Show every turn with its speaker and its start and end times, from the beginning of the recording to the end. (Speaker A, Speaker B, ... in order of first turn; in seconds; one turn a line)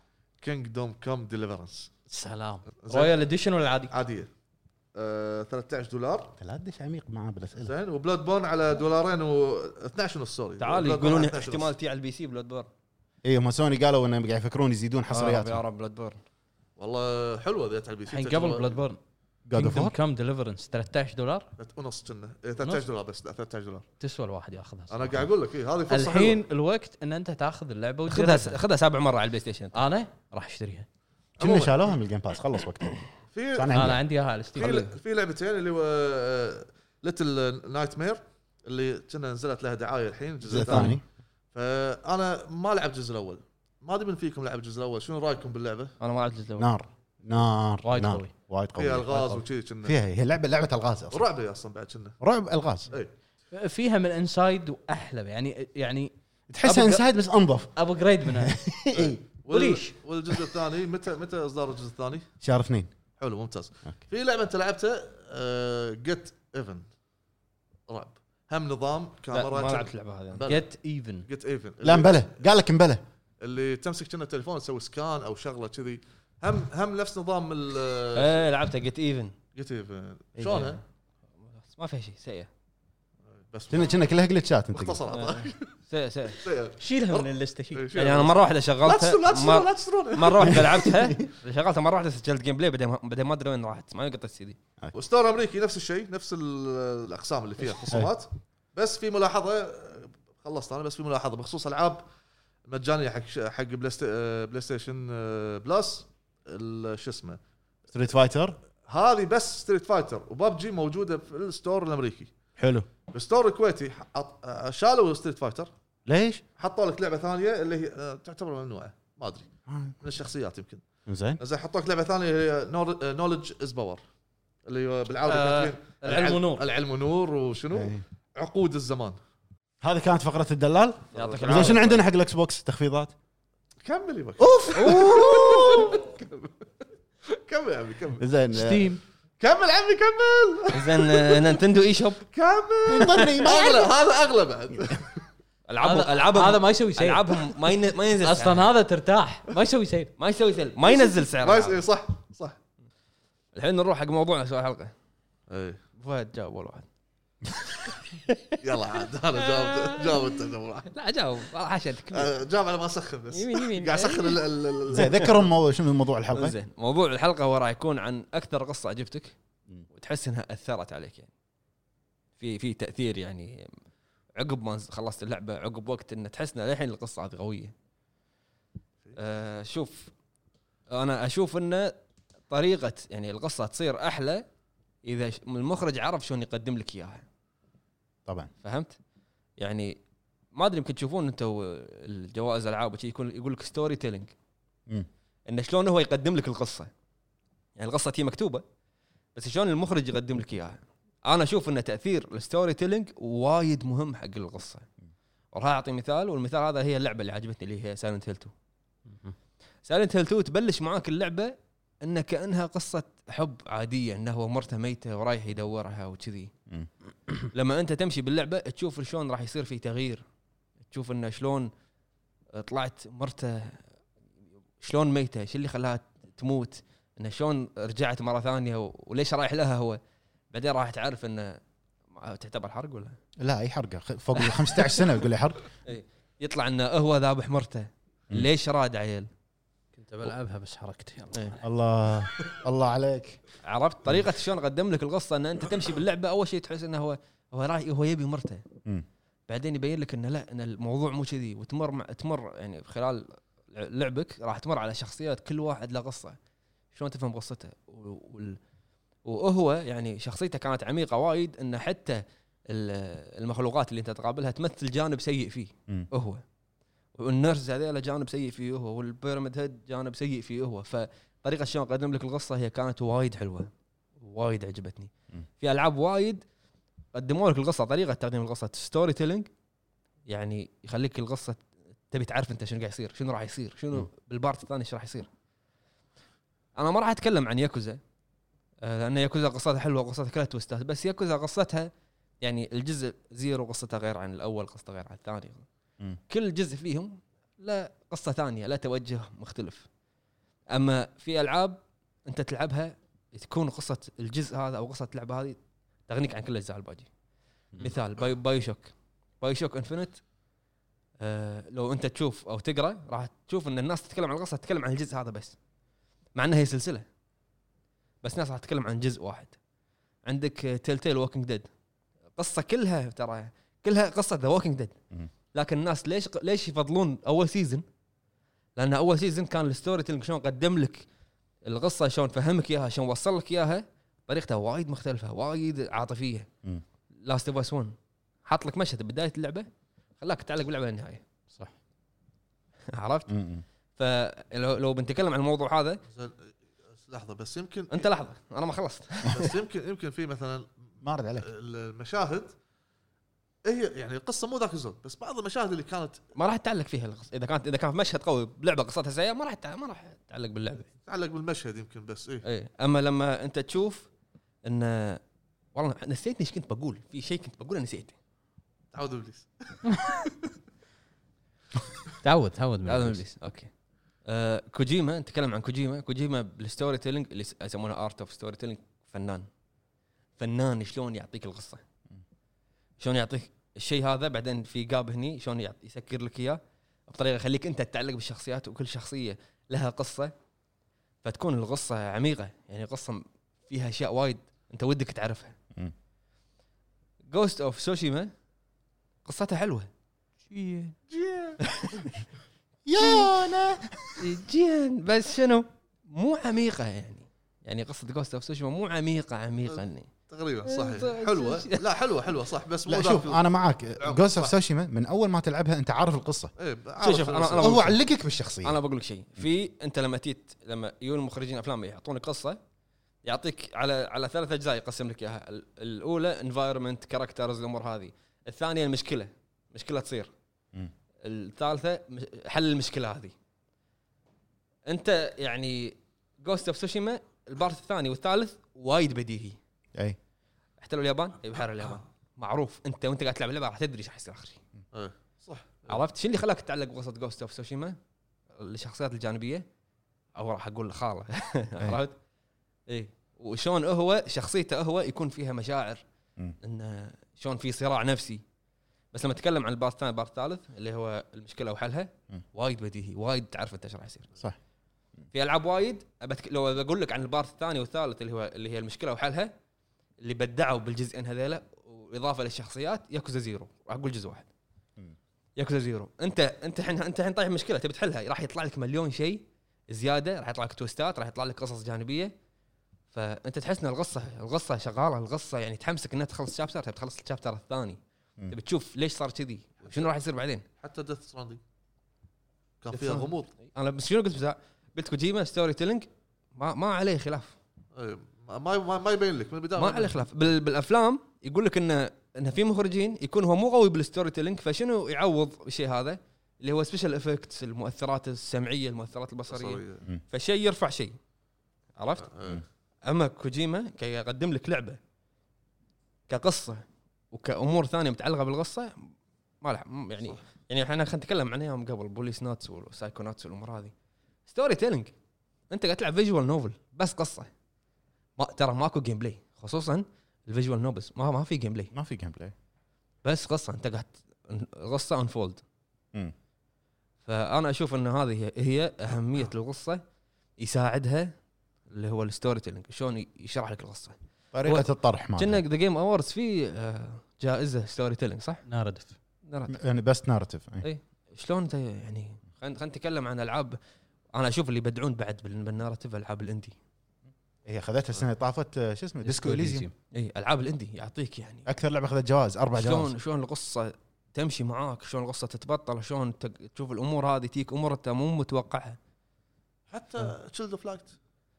Speaker A: 0.4-1.9
Speaker B: 2.1-3.9
Speaker A: 2.8-3.1
Speaker A: 3.9-4.3
Speaker A: 5.0-6.3
Speaker C: 6.4-7.7
Speaker A: 7.6-11.7
Speaker D: 10.6-12.7
Speaker C: 13.2-15.6
Speaker D: 15.1-16.2
Speaker A: 16.8-18.8
Speaker B: 18.1-19.0
Speaker C: 19.5-19.9
Speaker B: 19.5-21.5
Speaker A: 21.6-23.9
Speaker B: 24.0-25.3
Speaker A: 24.9-26.4
Speaker B: 25.9-28.6
Speaker D: 28.1-29.7
Speaker B: 29.7-30.9
Speaker A: 31.4-31.9
Speaker C: 31.4-34.0
Speaker A: 33.3-34.0
Speaker B: 33.7-34.9
Speaker A: 34.5-45.9
Speaker C: 40.4-41.0
Speaker D: 46.0-46.7
Speaker C: 46.6-51.3
Speaker B: 47.9-48.3
Speaker A: 48.8-50.0
Speaker A: 51.1-52.2
Speaker C: 52.2-52.9
Speaker B: 53.5-56.1
Speaker C: 56.5-57.7
Speaker B: 56.6-57.0
Speaker B: 57.8-58.6
Speaker C: 58.3-59.2
Speaker A: 58.9-62.3
Speaker B: 59.5-60.0
Speaker C: 62.4-62.9
Speaker A: 63.2-66.9
Speaker A: 67.9-70.7
Speaker D: 69.3-70.5
Speaker B: 70.5-71.3
Speaker A: 71.3-72.3
Speaker C: 71.8-73.0
Speaker A: 73.4-78.4
Speaker D: 78.2-79.3
Speaker A: 79.5-80.8
Speaker C: 80.4-80.7
Speaker D: 81.6-82.5
Speaker A: 83.5-84.0
Speaker C: 83.7-85.0
Speaker A: 84.7-85.7
Speaker D: 85.1-86.4
Speaker A: 86.4-90.9
Speaker B: 86.8-87.9
Speaker D: 87.9-94.6
Speaker C: 90.5-91.2
Speaker A: 94.9-102.0
Speaker C: 97.9-98.1
Speaker A: 102.7-107.4
Speaker C: 107.9-108.6
Speaker A: 108.9-112.3
Speaker C: 112.6-112.9
Speaker A: 113.1-115.7
Speaker C: 116.1-116.4
Speaker A: 116.6-119.5
Speaker C: 119.7-120.0
Speaker A: 120.0-120.8
Speaker C: 121.1-121.4
Speaker A: 121.4-124.0
Speaker A: 124.7-129.2
Speaker B: 125.2-126.7
Speaker C: 127.7-128.0
Speaker C: 129.8-133.1
Speaker D: 131.1-132.0
Speaker A: 131.2-131.8
Speaker A: 133.8-136.5
Speaker C: 134.4-136.0
Speaker D: 134.8-135.8
Speaker A: 137.3-138.2
Speaker C: 138.2-138.9
Speaker B: 138.5-139.0
Speaker A: 139.4-141.4
Speaker D: 140.7-142.2
Speaker A: 142.3-145.2
Speaker C: 142.9-143.9
Speaker D: 145.7-148.7
Speaker B: 145.8-147.3
Speaker B: 148.2-150.1
Speaker D: 150.2-151.8
Speaker A: 150.8-152.6
Speaker D: 153.5-154.9
Speaker A: 155.5-155.8
Speaker D: 156.0-156.9
Speaker D: 157.6-158.6
Speaker A: 158.6-160.9
Speaker D: 159.4-160.3
Speaker D: 160.9-162.3
Speaker A: 162.1-165.5
Speaker D: 163.3-165.2
Speaker C: 164.9-166.6
Speaker D: 166.3-169.3
Speaker D: 169.9-171.3
Speaker D: 172.4-173.7
Speaker D: 174.4-177.7
Speaker D: 179.2-180.1
Speaker D: 180.9-181.9
Speaker D: 182.5-184.4
Speaker D: 185.0-187.2
Speaker D: 188.6-188.9
Speaker D: 189.6-190.0
Speaker D: 190.5-194.3
Speaker D: 195.5-196.9
Speaker D: 197.8-198.6
Speaker D: 199.3-204.8
Speaker D: 205.5-208.5
Speaker B: 209.1-209.3
Speaker D: 209.9-216.5
Speaker D: 217.5-220.2
Speaker D: 220.9-221.7
Speaker D: 222.5-223.8
Speaker D: 224.8-230.0
Speaker D: 230.5-231.6
Speaker D: 232.1-233.2
Speaker C: 233.4-235.6
Speaker D: 234.4-235.0
Speaker D: 235.8-239.3
Speaker B: 239.9-241.6
Speaker D: 241.3-241.6
Speaker C: 241.6-243.4
Speaker D: 243.7-248.6
Speaker D: 249.5-256.4
Speaker D: 256.9-258.6
Speaker D: 259.2-266.4
Speaker D: 267.1-276.4
Speaker D: 277.1-279.5
Speaker D: 280.3-281.6
Speaker D: 282.1-285.3
Speaker D: 286.8-288.0
Speaker D: 288.8-291.9
Speaker D: 292.4-295.6
Speaker D: 296.3-299.9
Speaker D: 300.7-305.6
Speaker D: 306.1-307.1
Speaker D: 307.8-310.2
Speaker D: 311.2-315.6
Speaker D: 316.4-317.1
Speaker D: 318.2-319.6
Speaker D: 320.2-321.7
Speaker D: 322.4-324.9
Speaker D: 325.5-327.8
Speaker D: 328.8-331.0
Speaker D: 331.6-336.5
Speaker D: 337.2-337.9
Speaker D: 338.5-339.7
Speaker D: 340.2-341.2
Speaker D: 342.9-343.3
Speaker C: 343.3-343.6
Speaker D: 344.0-346.0
Speaker A: 346.1-348.1
Speaker D: 347.9-349.5
Speaker A: 349.3-350.7
Speaker C: 351.0-351.5
Speaker A: 351.4-352.5
Speaker A: 353.6-356.2
Speaker D: 356.4-360.9
Speaker A: 361.1-362.4
Speaker D: 362.4-364.1
Speaker D: 364.6-365.2
Speaker D: 365.8-368.1
Speaker A: 368.9-369.9
Speaker B: 372.2-373.2
Speaker D: 372.9-373.7
Speaker D: 374.3-379.4
Speaker D: 380.4-381.8
Speaker D: 383.0-390.3
Speaker D: 391.2-395.6
Speaker D: 397.3-398.3
Speaker D: 399.2-399.9
Speaker B: 400.5-400.9
Speaker A: 401.1-401.6
Speaker D: 401.6-402.2
Speaker C: 402.9-404.2
Speaker D: 403.0-403.3
Speaker D: 404.2-410.1
Speaker A: 409.7-413.4
Speaker D: 410.6-411.8
Speaker C: 412.9-416.5
Speaker A: 414.0-414.5
Speaker A: 416.6-417.9
Speaker D: 417.0-418.0
Speaker C: 417.6-418.8
Speaker D: 418.6-422.6
Speaker D: 423.2-430.3
Speaker D: 431.2-433.3
Speaker D: 434.9-439.6
Speaker D: 440.8-444.6
Speaker A: 444.9-446.0
Speaker D: 445.9-448.0
Speaker D: 448.6-449.6
Speaker D: 450.4-452.1
Speaker D: 452.9-456.0
Speaker D: 456.6-458.4
Speaker D: 459.1-464.3
Speaker D: 465.3-469.5
Speaker D: 470.2-474.5
Speaker D: 475.6-482.3
Speaker D: 483.1-488.0
Speaker D: 488.5-490.6
Speaker A: 490.8-491.6
Speaker A: 492.8-493.5
Speaker D: 492.9-497.6
Speaker A: 497.9-500.1
Speaker D: 499.8-511.2
Speaker A: 509.5-510.0
Speaker D: 512.0-512.3
Speaker A: 512.2-512.6
Speaker D: 513.0-515.0
Speaker D: 516.3-519.1
Speaker D: 519.6-523.9
Speaker D: 524.5-525.1
Speaker D: 525.7-527.5
Speaker D: 528.4-531.9
Speaker C: 531.9-532.5
Speaker D: 533.2-535.6
Speaker D: 537.2-540.0
Speaker D: 540.6-541.3
Speaker D: 541.9-548.6
Speaker C: 544.5-545.6
Speaker B: 548.7-549.1
Speaker D: 549.5-549.8
Speaker C: 549.7-550.9
Speaker D: 550.8-553.8
Speaker D: 554.3-556.8
Speaker C: 557.6-559.9
Speaker B: 559.2-559.9
Speaker D: 560.1-561.7
Speaker C: 561.7-563.1
Speaker D: 562.8-569.0
Speaker A: 569.9-571.1